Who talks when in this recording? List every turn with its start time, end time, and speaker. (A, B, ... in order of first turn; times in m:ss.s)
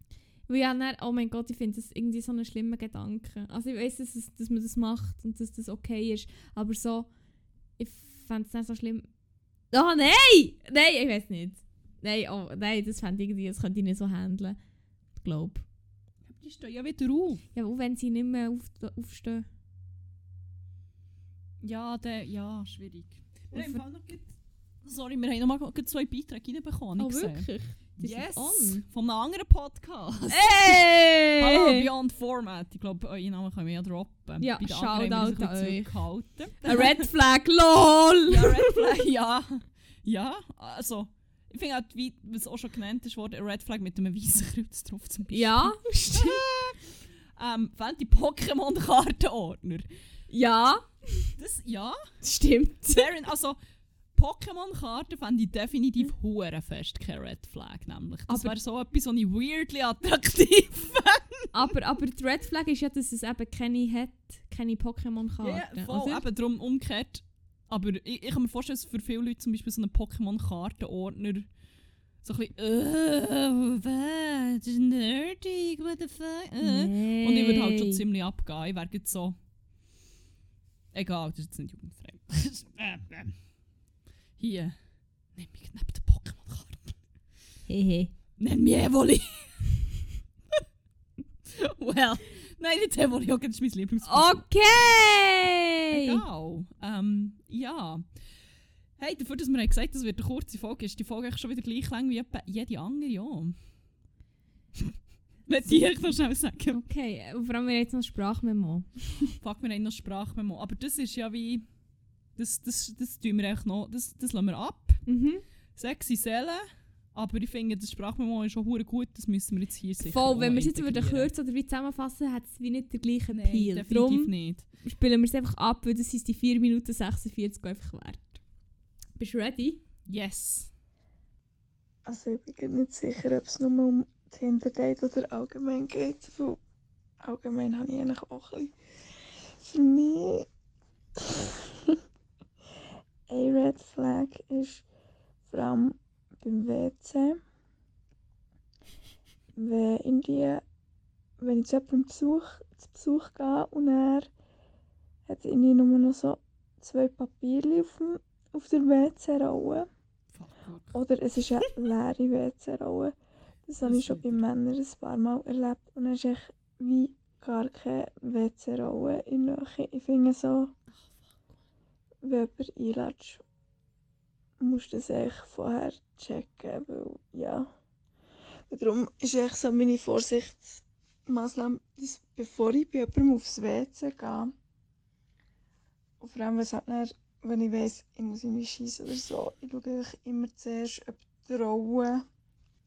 0:00.5-0:07.1 A
0:07.8-0:09.1 A
0:09.7-0:14.6 A
0:15.2-0:15.7 A
0:16.2-0:17.4 B
0:17.5-0:19.5 A
0:21.6-0:24.3 B
0:23.5-0:23.8 A
0:24.8-0:37.1 B
0:27.0-0:28.8 A
0:30.3-0:31.9 A
0:34.4-0:36.0 A
0:36.6-0:38.9 A
0:38.3-0:49.8 B
0:45.3-0:46.4 A
0:50.3-0:51.3 A
0:51.4-0:52.0 B
0:52.2-0:53.1 A
0:52.9-0:53.6 B
0:54.2-1:01.5 B
0:58.3-0:58.6 A
1:01.5-1:06.2 A
1:05.4-1:11.5 B
1:12.2-1:19.4 B
1:16.6-1:18.0 A
1:20.9-1:23.4 B
1:24.4-1:24.8 B
1:25.3-1:27.0 B
1:27.7-1:28.1 A
1:28.4-1:29.9 B
1:31.5-1:34.4 B
1:34.0-1:36.2 A
1:35.9-1:38.1 B
1:39.0-1:43.6 B
1:45.5-1:46.8 B
1:46.7-1:49.3 A
1:49.3-1:51.6 B
1:52.4-1:55.0 B
1:55.1-1:55.4 A
1:55.8-2:01.3 B
2:00.0-2:08.4 A
2:03.3-2:04.6 B
2:09.2-2:09.8 A
2:10.1-2:10.7 B
2:12.0-2:16.6 C
2:17.2-2:18.7 C
2:19.6-2:20.5 C
2:21.2-2:22.0 C
2:23.3-2:24.8 C
2:25.5-2:27.4 C
2:29.6-2:30.6 C
2:31.4-2:34.3 C
2:35.3-2:39.9 C
2:40.3-2:41.0 B
2:40.9-2:43.2 C
2:43.7-2:50.7 C
2:43.8-2:44.4 B
2:52.2-2:53.4 C
2:54.6-2:57.7 C
2:58.7-3:04.5 C
3:06.2-3:12.2 C